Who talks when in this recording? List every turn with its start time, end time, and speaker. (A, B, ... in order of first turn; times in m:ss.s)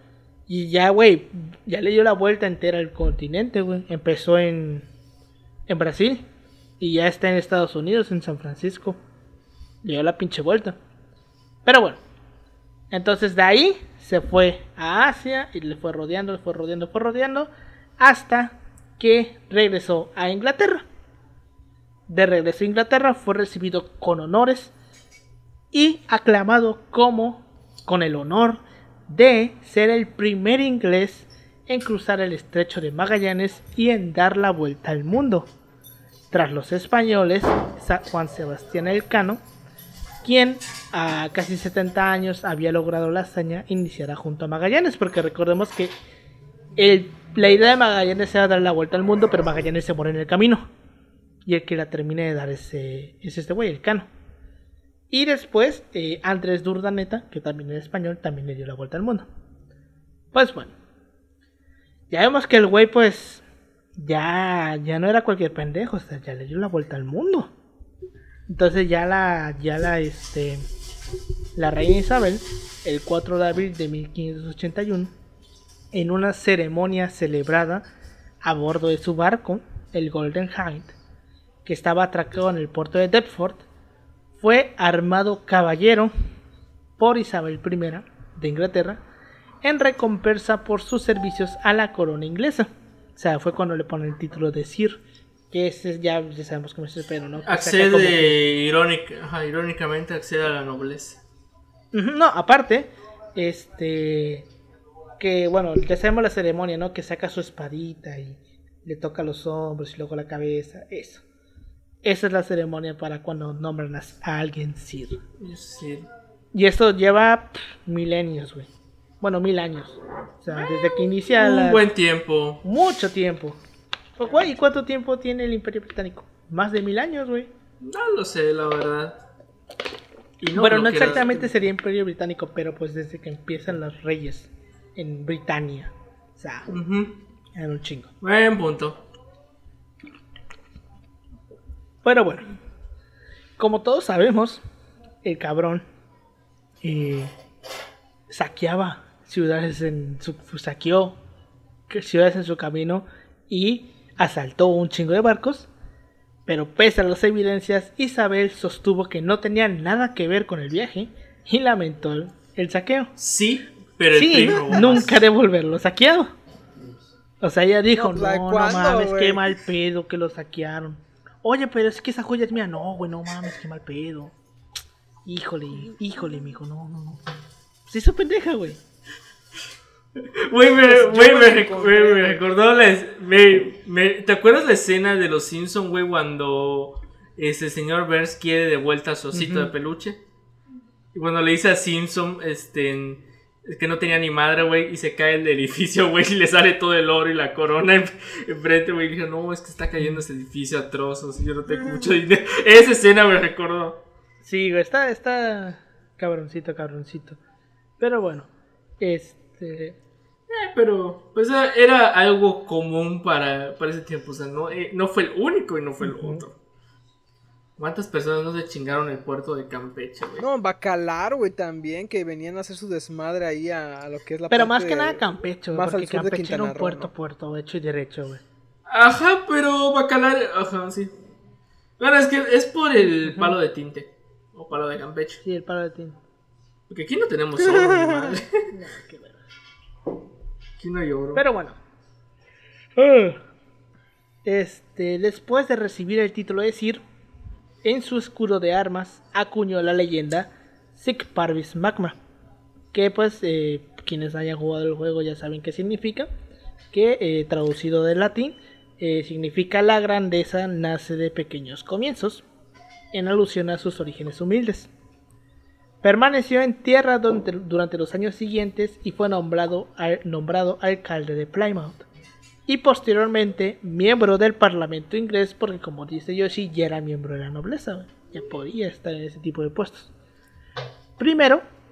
0:00.5-0:04.9 A
0:05.7-0:06.2 A
0:06.8-0:09.0 A
0:09.8-0:10.8 A
0:11.6-0:12.0 A
0:12.9-0:20.8 A
0:22.1-0:24.7 A
0:25.7-0:35.5 A
0:36.3-0:39.4 A
0:40.2-0:45.9 A
0:46.8-0:50.6 A
0:51.4-0:54.1 A
0:55.1-0:59.3 A
1:00.3-1:00.7 A
1:02.1-1:03.4 A
1:04.0-1:07.5 A
1:08.5-1:10.6 A
1:11.6-1:15.1 A
1:15.9-1:17.9 A
1:18.4-1:20.9 A
1:21.6-1:23.6 A
1:24.4-1:26.1 A
1:27.0-1:29.0 A
1:29.6-1:35.0 A
1:35.5-1:38.4 A
1:37.4-1:41.2 B
1:41.9-1:44.5 A
1:45.2-1:51.2 A
1:52.0-1:55.2 A
1:55.4-1:56.1 B
1:56.5-1:58.7 A
1:59.2-2:01.8 A
2:01.3-2:02.6 B
2:02.6-2:03.6 A
2:04.2-2:07.5 A
2:07.8-2:09.2 B
2:10.4-2:11.4 B
2:10.5-2:16.7 A
2:16.7-2:17.2 B
2:17.5-2:18.1 A
2:18.2-2:19.0 B
2:22.0-2:22.6 A
2:23.6-2:24.6 A
2:25.2-2:25.8 A
2:26.8-2:27.3 A
2:28.3-2:31.2 A
2:31.9-2:35.7 A
2:36.5-2:43.1 A
2:43.2-2:45.2 B
2:44.1-2:46.3 A
2:47.4-2:54.3 A
2:47.9-2:49.4 C
2:55.2-2:57.2 A
2:57.9-2:58.8 A
3:00.4-3:10.2 B
3:00.8-3:02.4 A
3:09.3-3:09.7 A
3:11.1-3:24.0 B
3:24.4-3:27.4 A
3:28.0-3:30.0 A
3:30.5-3:36.5 B
3:36.0-3:36.4 A
3:37.8-3:40.4 B
3:40.4-3:45.2 C
3:44.5-3:48.4 A
3:45.7-3:47.1 C
3:48.9-3:51.1 B
3:52.0-3:55.4 B
3:53.2-3:53.6 A
3:55.4-3:56.2 A
3:56.9-3:58.6 B
3:57.6-3:58.4 C
3:58.7-3:59.4 A
4:00.8-4:01.4 B
4:01.3-4:01.8 A
4:03.0-4:03.4 A
4:04.4-4:07.0 A
4:07.8-4:12.2 A
4:12.9-4:16.3 A
4:16.9-4:22.4 A
4:23.1-4:24.9 A
4:26.0-4:32.1 A
4:32.7-4:40.1 A
4:41.2-4:41.6 A